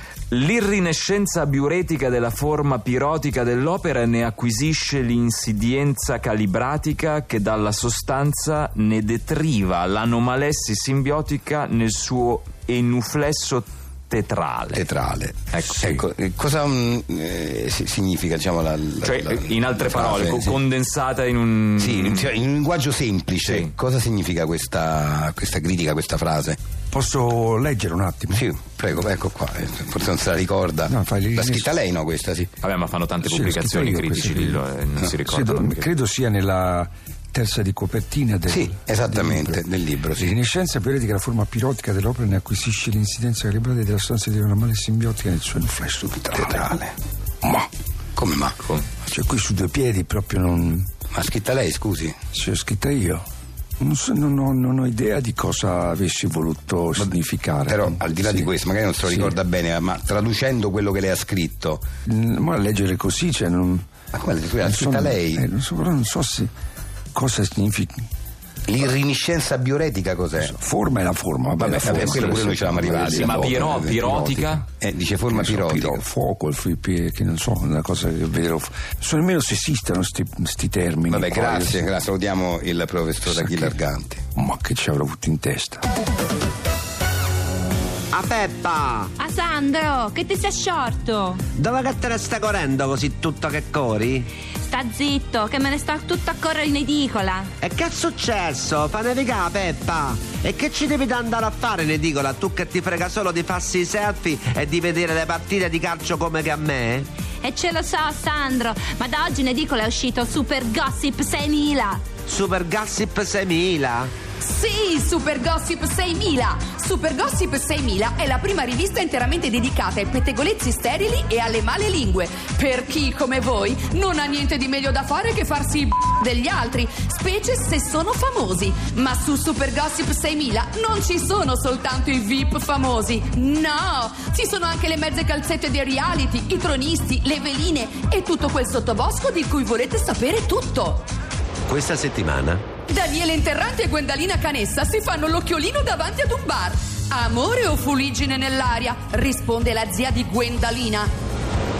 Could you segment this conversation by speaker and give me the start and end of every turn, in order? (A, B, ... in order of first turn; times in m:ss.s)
0:00.3-0:14.8 A
0:14.7-0:20.6 B
0:15.5-0:16.0 A
0:19.0-0:22.3 A
0:21.8-0:26.6 B
0:23.4-0:23.7 A
0:26.9-0:28.5 C
0:28.3-0:32.5 B
0:30.8-0:31.7 C
0:32.6-0:35.9 A
0:33.2-0:34.6 C
0:35.2-0:39.6 C
0:38.5-0:40.4 B
0:40.2-0:46.8 C
0:46.3-0:46.9 B
0:48.2-0:48.6 B
0:49.1-0:50.9 C
0:51.1-0:52.1 B
0:52.3-0:53.2 C
0:53.8-0:58.5 C
0:57.7-1:01.9 B
0:59.0-0:59.4 C
1:02.0-1:03.8 C
1:04.1-1:05.5 B
1:04.6-1:06.5 C
1:07.1-1:08.1 C
1:08.7-1:10.6 B
1:10.4-1:14.6 C
1:11.6-1:14.1 B
1:11.8-1:12.3 A
1:13.0-1:14.7 A
1:14.8-1:16.0 B
1:15.3-1:21.9 C
1:21.1-1:24.2 B
1:23.3-1:23.8 C
1:24.3-1:25.8 C
1:28.1-1:29.1 D
1:29.2-1:31.4 E
1:31.5-1:34.3 D
1:34.7-1:37.5 E
1:37.6-1:47.1 D
1:47.4-1:52.1 E
1:52.3-1:54.1 D
1:54.4-2:21.1 F
2:21.7-2:22.6 D
2:22.9-2:31.1 F